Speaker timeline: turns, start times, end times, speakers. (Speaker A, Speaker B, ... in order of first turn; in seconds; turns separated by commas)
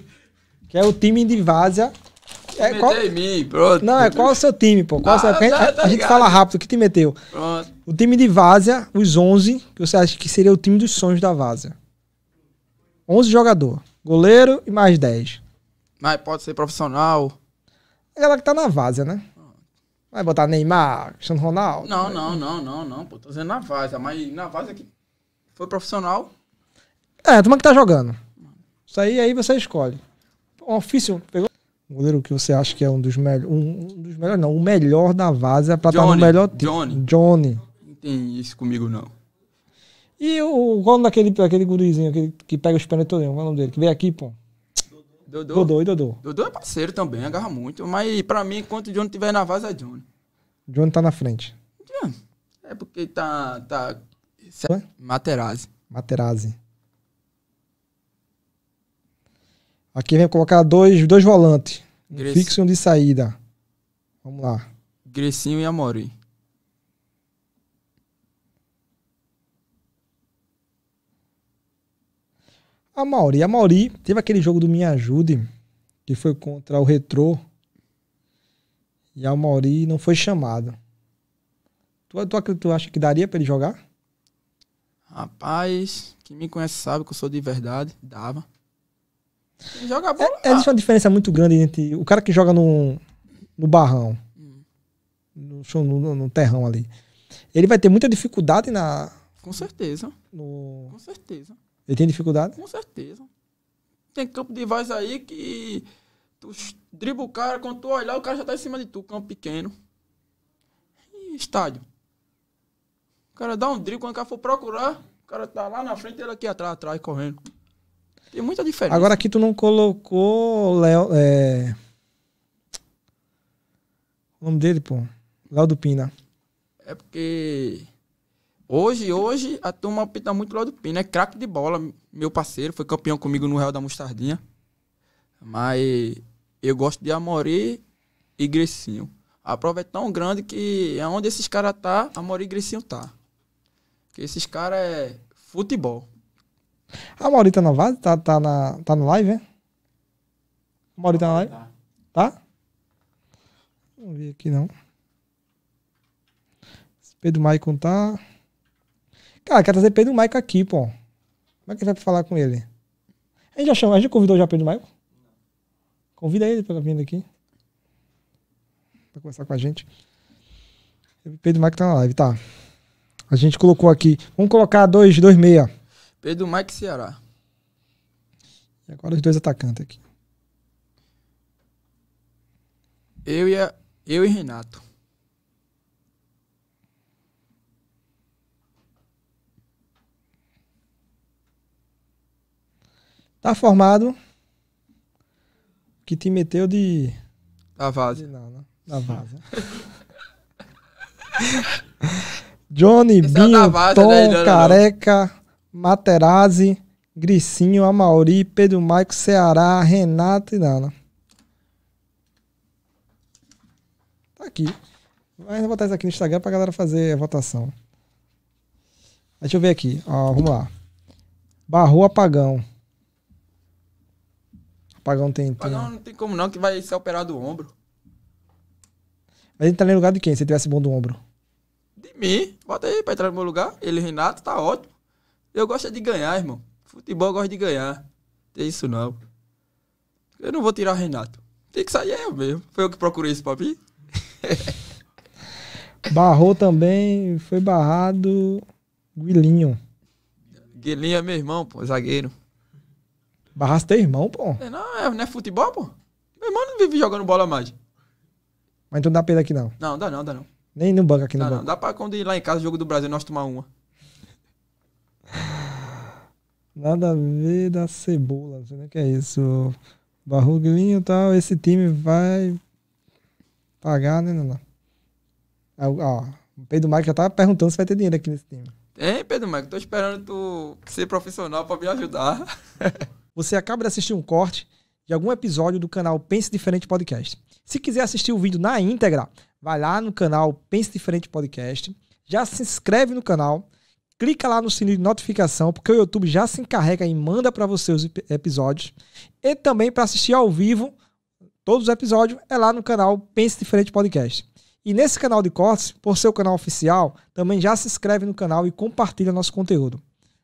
Speaker A: 0.7-1.9, Speaker A: 2.5-3.0, Speaker B: 2.5-4.4, Speaker A: 3.8-7.2, Speaker B: 5.0-6.4, Speaker B: 7.3-7.7, Speaker A: 7.8-11.8, Speaker A: 13.1-15.4, Speaker B: 16.0-17.4, Speaker A: 18.1-19.2, Speaker A: 20.1-22.4, Speaker B: 21.8-24.9, Speaker B: 25.6-26.3, Speaker A: 27.2-28.2, Speaker A: 28.9-30.0, Speaker A: 30.6-37.6, Speaker B: 35.9-37.0, Speaker B: 37.8-39.1, Speaker A: 40.2-44.4, Speaker B: 45.3-45.7, Speaker A: 45.5-46.2, Speaker B: 46.2-50.0, Speaker A: 50.7-51.5, Speaker B: 51.8-55.7, Speaker A: 55.9-56.5, Speaker A: 59.9-63.4, Speaker B: 62.1-62.5, Speaker A: 64.2-64.6, Speaker B: 65.0-66.1, Speaker A: 72.9-75.5, Speaker A: 76.0-77.4, Speaker A: 79.2-80.8, Speaker A: 82.1-83.8, Speaker B: 85.1-88.4, Speaker B: 89.7-90.7, Speaker A: 90.2-93.0, Speaker A: 93.6-94.2, Speaker B: 94.4-94.6, Speaker A: 95.3-96.9, Speaker A: 97.5-99.1, Speaker B: 99.4-100.1, Speaker A: 100.3-100.9, Speaker B: 100.9-101.6, Speaker A: 101.9-102.6, Speaker B: 102.6-103.3, Speaker B: 104.1-105.9, Speaker B: 106.4-109.7, Speaker B: 111.1-111.8, Speaker B: 113.3-117.4, Speaker B: 118.3-119.2, Speaker A: 118.9-121.8, Speaker A: 124.4-126.1, Speaker B: 126.8-127.9, Speaker B: 128.7-134.4, Speaker B: 135.4-137.8, Speaker B: 138.4-143.1, Speaker B: 144.1-146.1, Speaker A: 147.2-149.4, Speaker A: 151.0-151.5, Speaker A: 154.0-154.7, Speaker A: 157.2-158.2, Speaker A: 159.4-160.9, Speaker A: 161.7-162.7, Speaker A: 163.6-164.9, Speaker A: 166.2-167.2, Speaker A: 169.1-169.9, Speaker A: 171.2-172.4, Speaker A: 173.3-175.7, Speaker B: 176.2-177.2, Speaker A: 178.9-180.0, Speaker B: 183.2-184.8, Speaker A: 193.4-194.2, Speaker A: 196.1-197.2, Speaker B: 197.8-198.2, Speaker A: 198.2-199.4, Speaker A: 202.7-210.9, Speaker B: 203.2-204.8, Speaker A: 214.4-214.8, Speaker A: 215.4-217.7, Speaker A: 219.4-220.7, Speaker A: 221.7-222.6, Speaker A: 225.0-225.9, Speaker B: 225.6-227.7, Speaker A: 229.6-231.2, Speaker B: 232.0-234.9, Speaker B: 235.5-239.2, Speaker B: 240.4-243.8, Speaker B: 244.4-244.8, Speaker A: 246.1-248.6, Speaker A: 249.2-249.8, Speaker B: 250.7-252.3, Speaker A: 253.6-254.6, Speaker B: 254.6-257.7, Speaker A: 258.9-259.7, Speaker B: 259.8-260.5, Speaker A: 260.7-261.7, Speaker B: 261.4-263.7, Speaker A: 266.8-269.8, Speaker A: 270.3-272.6, Speaker A: 273.8-274.6, Speaker A: 275.8-278.7, Speaker B: 278.9-282.9, Speaker A: 283.3-293.7, Speaker A: 294.2-300.9, Speaker A: 301.6-310.0